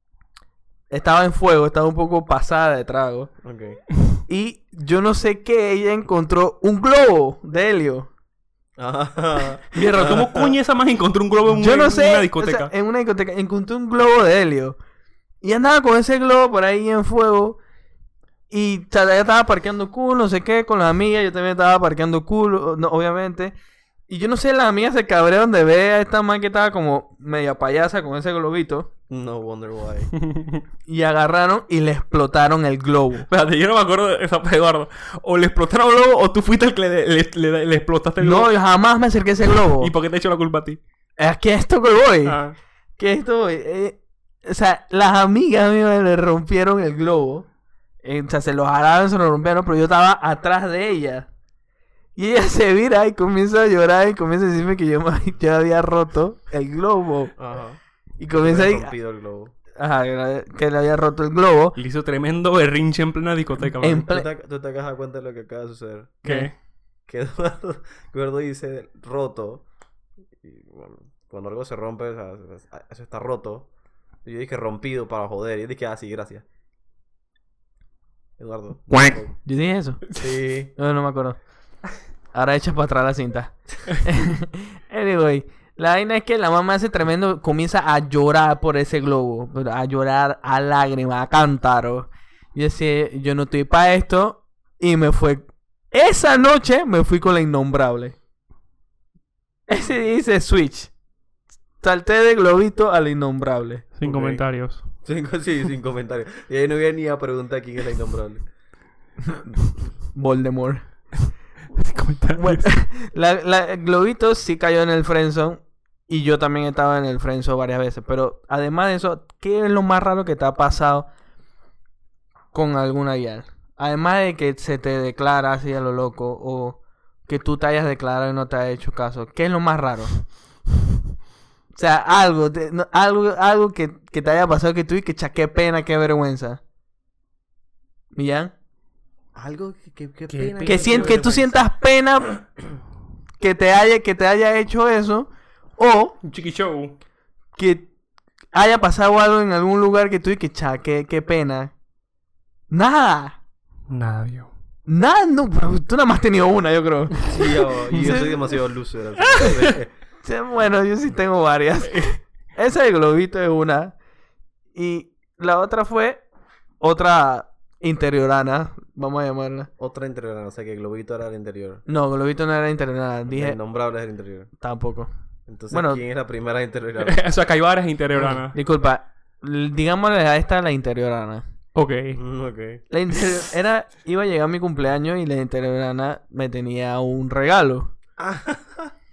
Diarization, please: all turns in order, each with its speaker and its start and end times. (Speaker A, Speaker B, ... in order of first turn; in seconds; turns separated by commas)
Speaker A: 0.9-3.3, Speaker B: 3.4-3.8, Speaker A: 4.3-8.1, Speaker B: 8.8-10.5, Speaker C: 9.7-12.7, Speaker A: 11.5-14.8, Speaker A: 15.4-17.6, Speaker A: 18.5-23.5, Speaker A: 24.1-28.9, Speaker B: 29.1-30.1, Speaker C: 30.1-30.6, Speaker A: 30.9-33.3, Speaker C: 33.3-38.5, Speaker A: 38.2-39.9, Speaker C: 39.5-40.8, Speaker A: 41.2-42.4, Speaker C: 42.2-42.5, Speaker A: 43.0-47.5, Speaker A: 48.0-51.3, Speaker A: 52.1-57.4, Speaker B: 57.4-57.8, Speaker A: 58.2-58.9, Speaker B: 58.3-59.5, Speaker A: 59.7-61.8, Speaker C: 61.8-64.0, Speaker A: 63.8-64.3, Speaker B: 64.1-66.2, Speaker A: 66.2-66.5, Speaker C: 66.2-66.5, Speaker B: 67.1-69.6, Speaker B: 70.4-73.7, Speaker B: 74.2-76.4, Speaker B: 78.4-79.3, Speaker C: 78.9-79.2, Speaker A: 79.5-80.0, Speaker B: 80.2-80.7, Speaker A: 80.8-81.3, Speaker A: 82.3-98.1, Speaker A: 99.7-100.9, Speaker A: 101.8-103.8, Speaker C: 103.9-104.8, Speaker B: 104.0-104.4, Speaker B: 105.0-108.4, Speaker A: 109.3-109.6, Speaker A: 110.1-110.8, Speaker C: 111.7-112.6, Speaker A: 112.3-121.1, Speaker A: 122.5-130.2, Speaker A: 131.8-136.6, Speaker A: 138.1-138.5, Speaker B: 139.3-141.7, Speaker C: 140.3-141.2, Speaker A: 140.6-142.5, Speaker A: 143.4-146.2, Speaker C: 146.2-146.9, Speaker A: 147.6-147.9, Speaker A: 148.5-151.7, Speaker A: 152.7-153.4, Speaker C: 153.9-154.5, Speaker A: 154.9-157.3, Speaker B: 157.2-159.9, Speaker A: 157.9-158.3, Speaker C: 159.3-159.6, Speaker A: 160.2-163.9, Speaker A: 164.7-166.2, Speaker A: 166.8-169.7, Speaker B: 169.8-171.8, Speaker A: 171.9-173.6, Speaker B: 173.3-174.5, Speaker A: 174.6-175.1, Speaker B: 175.5-177.2, Speaker A: 175.7-176.0, Speaker C: 177.0-178.6, Speaker A: 178.2-181.4, Speaker C: 181.7-182.2, Speaker B: 182.1-182.8, Speaker A: 182.9-187.9, Speaker B: 188.2-188.9